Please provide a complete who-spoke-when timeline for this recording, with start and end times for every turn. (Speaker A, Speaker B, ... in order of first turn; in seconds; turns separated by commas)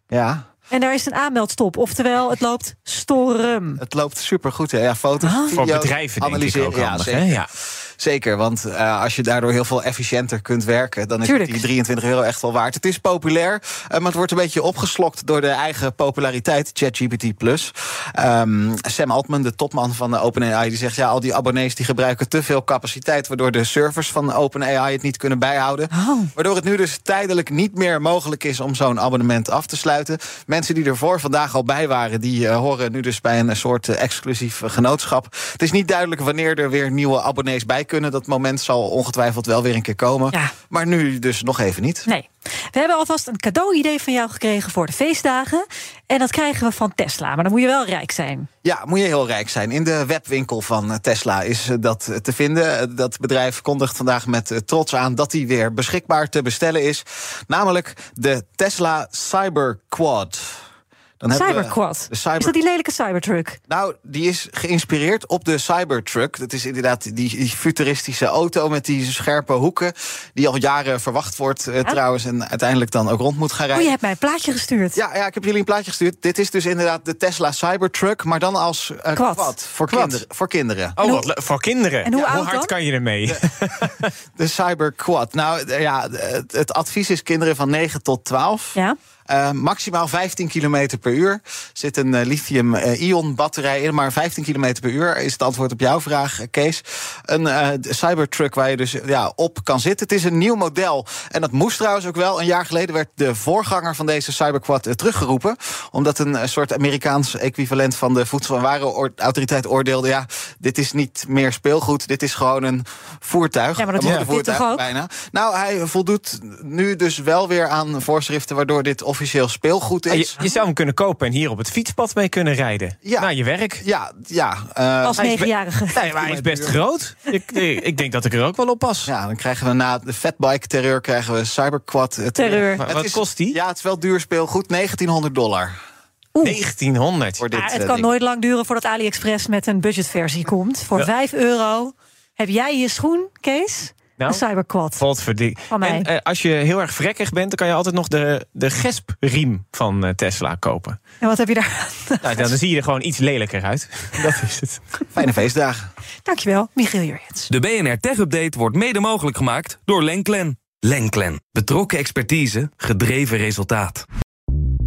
Speaker A: 0.1-0.4, Speaker B: 0.7-3.8, Speaker A: 3.8-42.1, Speaker B: 5.2-5.7, Speaker C: 5.6-7.5, Speaker B: 11.2-11.7, Speaker B: 25.9-26.3, Speaker B: 42.1-48.5, Speaker A: 48.6-60.6, Speaker A: 61.2-62.5, Speaker B: 61.3-63.6, Speaker A: 63.7-73.9, Speaker B: 73.7-75.0, Speaker A: 75.0-81.0, Speaker B: 79.2-79.5, Speaker C: 79.9-80.2, Speaker C: 81.0-84.1, Speaker B: 81.0-81.3, Speaker B: 82.0-82.8, Speaker A: 84.4-120.4, Speaker B: 113.8-114.9, Speaker C: 114.0-114.3, Speaker C: 120.1-123.8, Speaker A: 123.0-125.4, Speaker B: 125.0-126.0, Speaker C: 125.2-129.1, Speaker A: 126.1-126.8, Speaker A: 129.1-135.8, Speaker B: 132.4-132.9, Speaker C: 132.4-133.6, Speaker B: 136.3-136.6, Speaker C: 136.4-137.5, Speaker A: 137.4-138.1, Speaker B: 137.5-145.0, Speaker C: 144.9-151.0, Speaker B: 145.7-146.1, Speaker B: 151.2-152.6, Speaker C: 152.2-154.8, Speaker A: 155.1-155.8, Speaker B: 156.2-157.5, Speaker D: 157.5-164.1